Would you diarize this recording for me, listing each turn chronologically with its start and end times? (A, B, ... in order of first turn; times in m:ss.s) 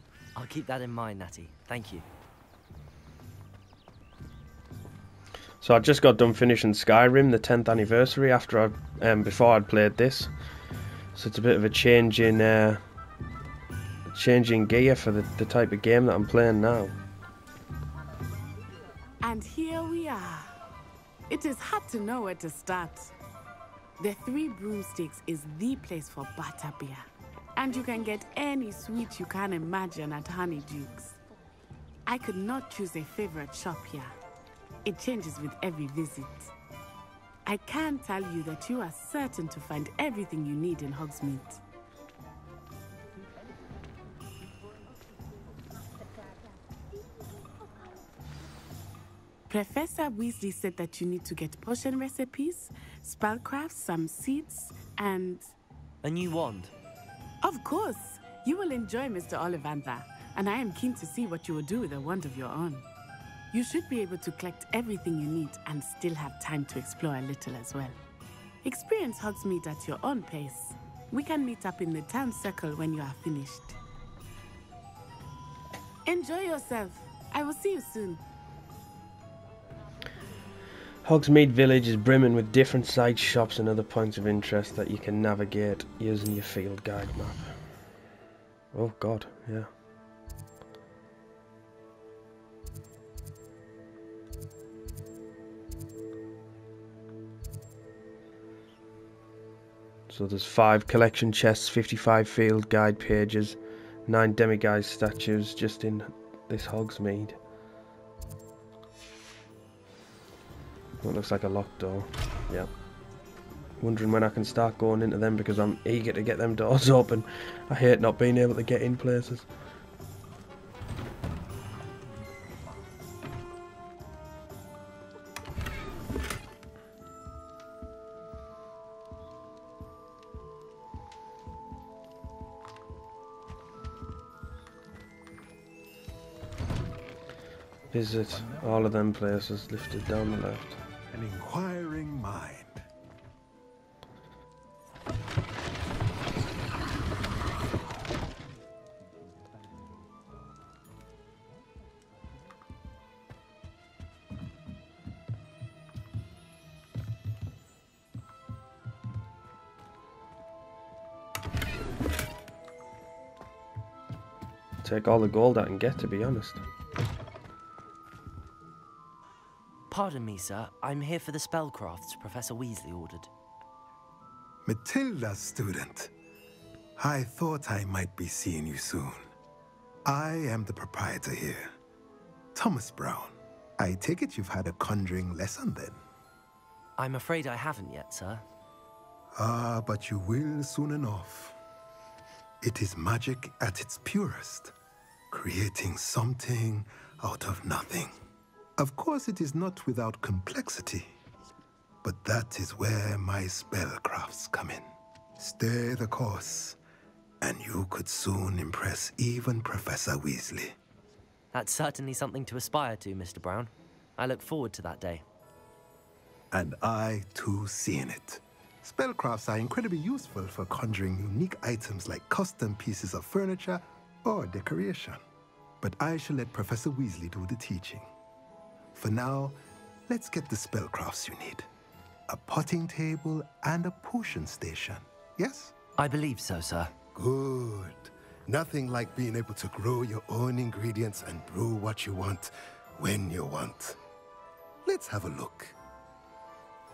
0:00.4-0:02.1 A
0:05.6-0:10.3 B
0:11.2-0:12.8 B
0:14.1-0:17.0 B
0:19.2-0:20.5 C
0:21.3-0:23.1 C
0:24.0-0:31.2 C
0:32.1-0:34.1 C
0:34.8-0:36.5 C
0:37.5-0:41.6 C
0:49.5-0:55.5 C
0:56.0-0:56.7 A
0:57.4-1:02.8 C
1:03.5-1:08.0 C
1:08.6-1:13.8 C
1:16.1-1:18.2 C
1:21.0-1:27.5 B
1:28.7-1:29.7 B
1:40.1-1:47.4 B
1:51.0-1:52.7 B
1:53.8-1:59.5 B
2:17.9-2:20.8 B
2:21.1-2:22.8 D
2:44.8-2:46.6 B
2:49.9-2:53.3 A
2:54.6-2:56.1 D
2:57.0-2:59.3 D
3:00.1-3:01.7 D
3:02.6-3:06.0 D
3:07.0-3:08.4 A
3:09.4-3:11.6 D
3:12.6-3:14.7 D
3:15.3-3:18.1 D
3:18.8-3:21.1 D
3:22.0-3:26.8 D
3:27.4-3:30.8 D
3:31.5-3:35.2 A
3:36.5-3:45.2 D
3:45.8-3:48.1 D
3:49.0-3:51.7 D
3:52.3-3:55.7 D
3:56.0-3:56.9 A
3:57.2-4:04.0 D
4:04.8-4:05.8 D